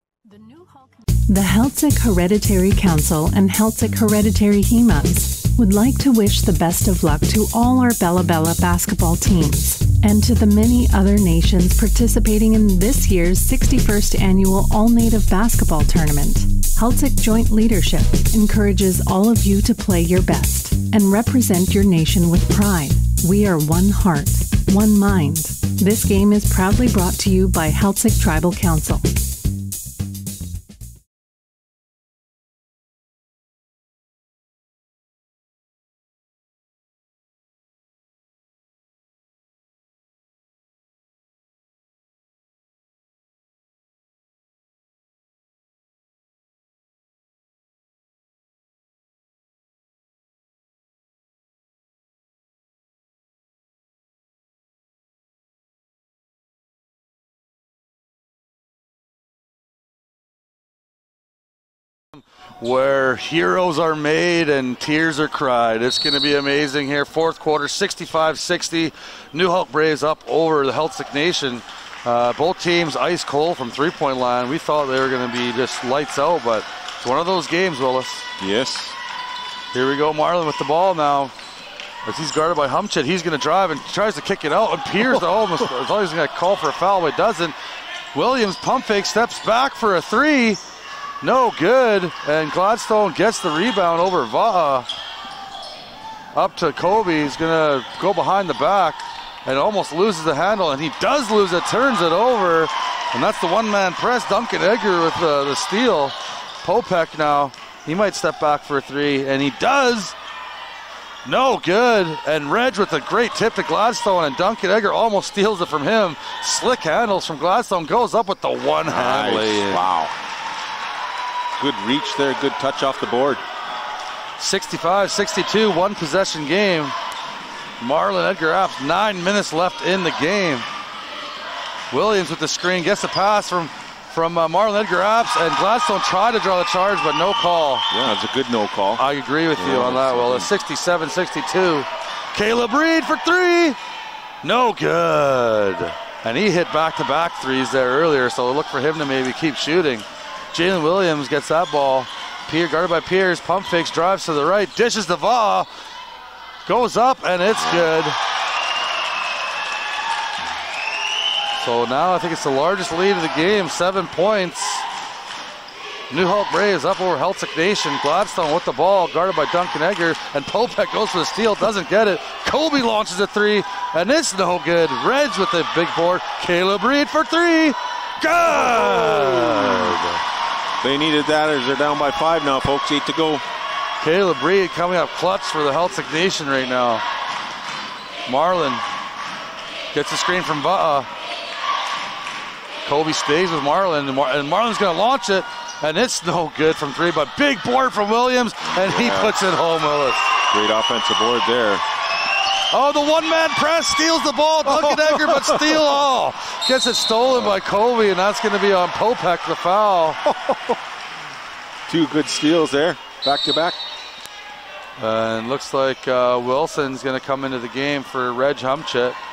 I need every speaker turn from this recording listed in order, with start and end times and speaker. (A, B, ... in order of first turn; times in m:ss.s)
0:00.3-0:29.1 A
1:02.2-1:18.3 B
1:18.4-1:19.0 C
1:19.7-1:21.3 B
1:22.0-1:27.6 B
1:28.1-1:30.6 B
1:31.2-1:34.9 B
1:36.3-1:50.1 B
1:51.3-1:59.8 B
1:58.9-2:00.1 C
2:01.6-2:03.4 C
2:04.4-2:07.0 B
2:07.8-2:10.7 B
2:11.9-2:17.8 B
2:17.9-2:19.0 C
2:19.0-2:23.8 B
2:19.6-2:20.5 C
2:24.4-2:35.7 B
2:36.7-2:38.2 B
2:37.6-2:37.9 C
2:41.6-2:44.9 B
2:46.1-3:00.2 B
2:58.4-3:00.0 C
3:00.8-3:03.4 C
3:04.0-3:07.0 B
3:08.3-3:08.8 B
3:09.9-3:11.1 B
3:12.9-3:20.2 B
3:18.6-3:19.4 C
3:20.5-3:21.8 C
3:22.7-3:30.2 B
3:24.7-3:25.8 C
3:27.3-3:27.6 C
3:30.3-3:30.8 C
3:31.9-3:33.8 C
3:35.0-3:39.2 B